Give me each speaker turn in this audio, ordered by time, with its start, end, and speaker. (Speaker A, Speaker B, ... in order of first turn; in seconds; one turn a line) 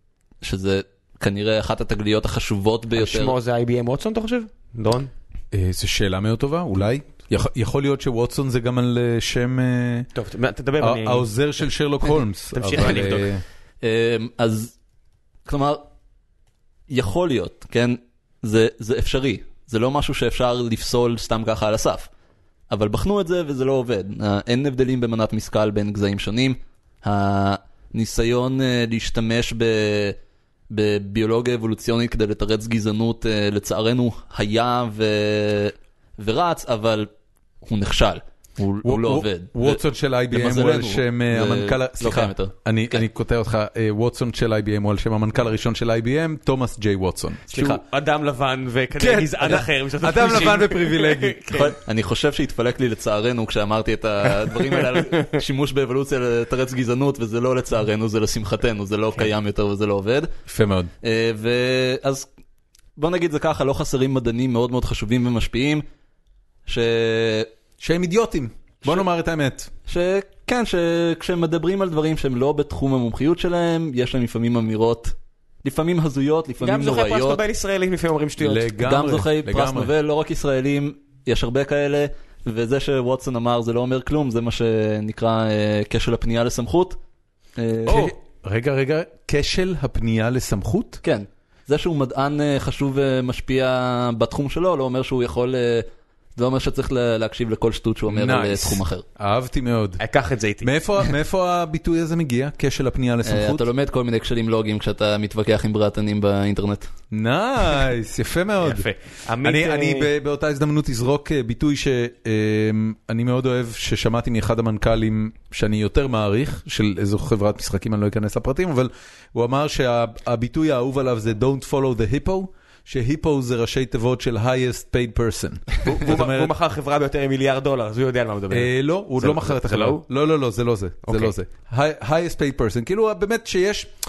Speaker A: 0.4-3.3
Speaker B: 2.9-5.1
Speaker C: 5.5-10.1
Speaker B: 10.1-11.3
Speaker C: 10.8-13.4
Speaker B: 12.0-13.3
Speaker A: 12.8-13.0
Speaker A: 13.8-14.7
Speaker A: 15.4-15.8
Speaker A: 16.9-22.1
Speaker A: 22.7-30.1
Speaker A: 30.7-37.1
Speaker A: 37.6-43.0
Speaker C: 38.8-47.8
Speaker B: 47.5-51.8
Speaker C: 49.0-51.4
Speaker A: 51.5-60.3
Speaker C: 60.5-60.9
Speaker A: 61.0-62.3
Speaker A: 63.0-65.8
Speaker A: 66.7-67.5
Speaker C: 67.8-69.7
Speaker A: 69.9-77.4
Speaker B: 76.6-78.8
Speaker C: 78.4-79.9
Speaker A: 78.8-87.0
Speaker A: 87.6-88.1
Speaker C: 87.8-91.0
Speaker B: 87.9-88.1
Speaker A: 91.0-99.0
Speaker C: 98.1-100.0
Speaker B: 100.0-101.1
Speaker C: 100.6-103.6
Speaker A: 103.2-106.9
Speaker C: 107.1-108.9
Speaker B: 108.6-110.1
Speaker C: 109.4-126.5
Speaker B: 125.8-130.0
Speaker C: 128.5-133.9
Speaker B: 131.0-131.3